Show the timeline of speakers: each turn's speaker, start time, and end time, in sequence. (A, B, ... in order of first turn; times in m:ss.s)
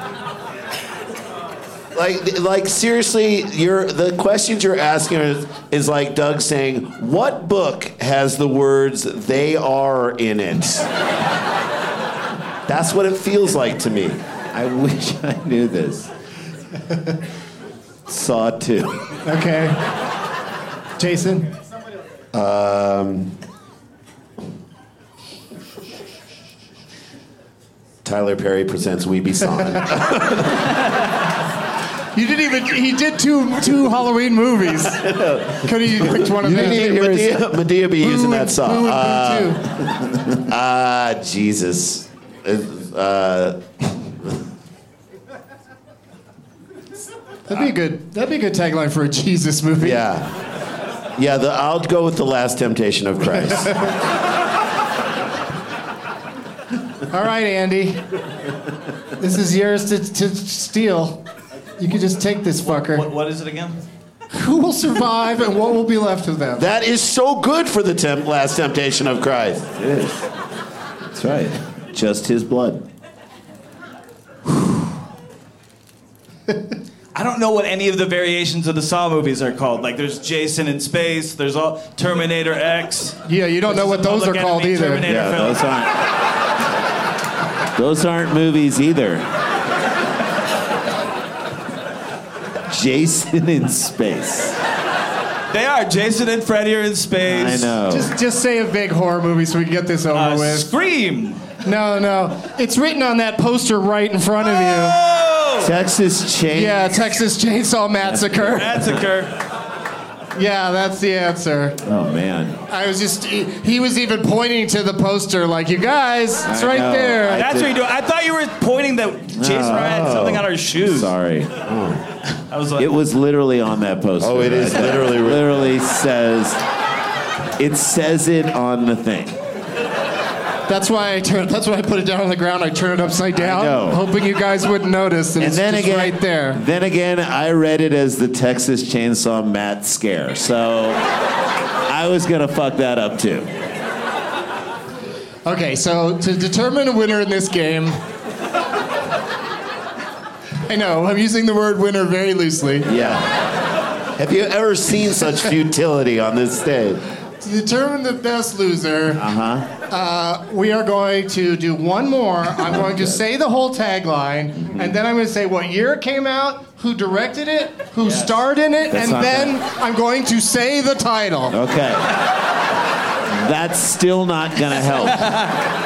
0:01.9-0:10.9 A
0:12.7-0:14.2 A
0:14.5-0:16.1 B
0:18.1-0:19.0 B
0:19.2-0:19.8 C
0:21.0-0:21.5 C
0:22.3-0:23.3 A
0:28.0-0:30.6 A
0:32.1-0:37.4 C
0:35.0-0:39.7 A
0:38.0-0:39.6 C
0:40.4-0:43.6 A
0:47.5-0:50.0 C
0:49.8-0:50.4 A
0:51.1-0:53.8 A
0:57.1-0:58.0 C
0:59.2-1:01.2 C
1:01.8-1:03.0 C
1:02.6-1:03.8 D
1:04.3-1:06.6 C
1:06.6-1:10.0 A
1:11.1-1:12.8 B
1:17.1-1:25.6 D
1:23.2-1:25.0 C
1:25.1-1:25.4 A
1:25.1-1:25.9 B
1:27.8-1:29.2 B
1:32.7-1:34.6 B
1:35.5-1:37.8 D
1:37.2-1:38.1 B
1:37.9-1:40.7 C
1:40.1-1:41.5 D
1:41.6-1:45.0 C
1:44.5-1:45.7 D
1:45.6-1:47.0 B
1:46.5-1:48.8 C
1:48.0-1:49.0 B
1:48.5-1:49.3 D
1:50.4-1:51.8 C
1:51.8-1:52.6 B
1:52.7-1:57.4 C
1:56.4-1:57.7 B
1:57.3-2:01.1 D
1:59.4-2:00.1 B
1:59.7-2:00.5 A
2:00.8-2:01.5 B
2:01.6-2:02.1 A
2:02.5-2:02.9 D
2:02.8-2:06.6 B
2:04.2-2:05.8 A
2:07.6-2:09.3 B
2:10.7-2:16.6 C
2:13.3-2:14.0 B
2:15.4-2:21.0 B
2:21.9-2:23.5 B
2:25.4-2:28.0 C
2:30.6-2:32.9 C
2:32.8-2:33.3 B
2:34.2-2:37.0 A
2:37.4-2:39.3 C
2:39.2-2:39.7 B
2:39.9-2:51.6 C
2:42.6-2:43.2 B
2:44.6-2:44.9 B
2:48.0-2:48.4 D
2:48.9-2:49.5 B
2:51.5-2:52.2 B
2:53.3-2:55.4 B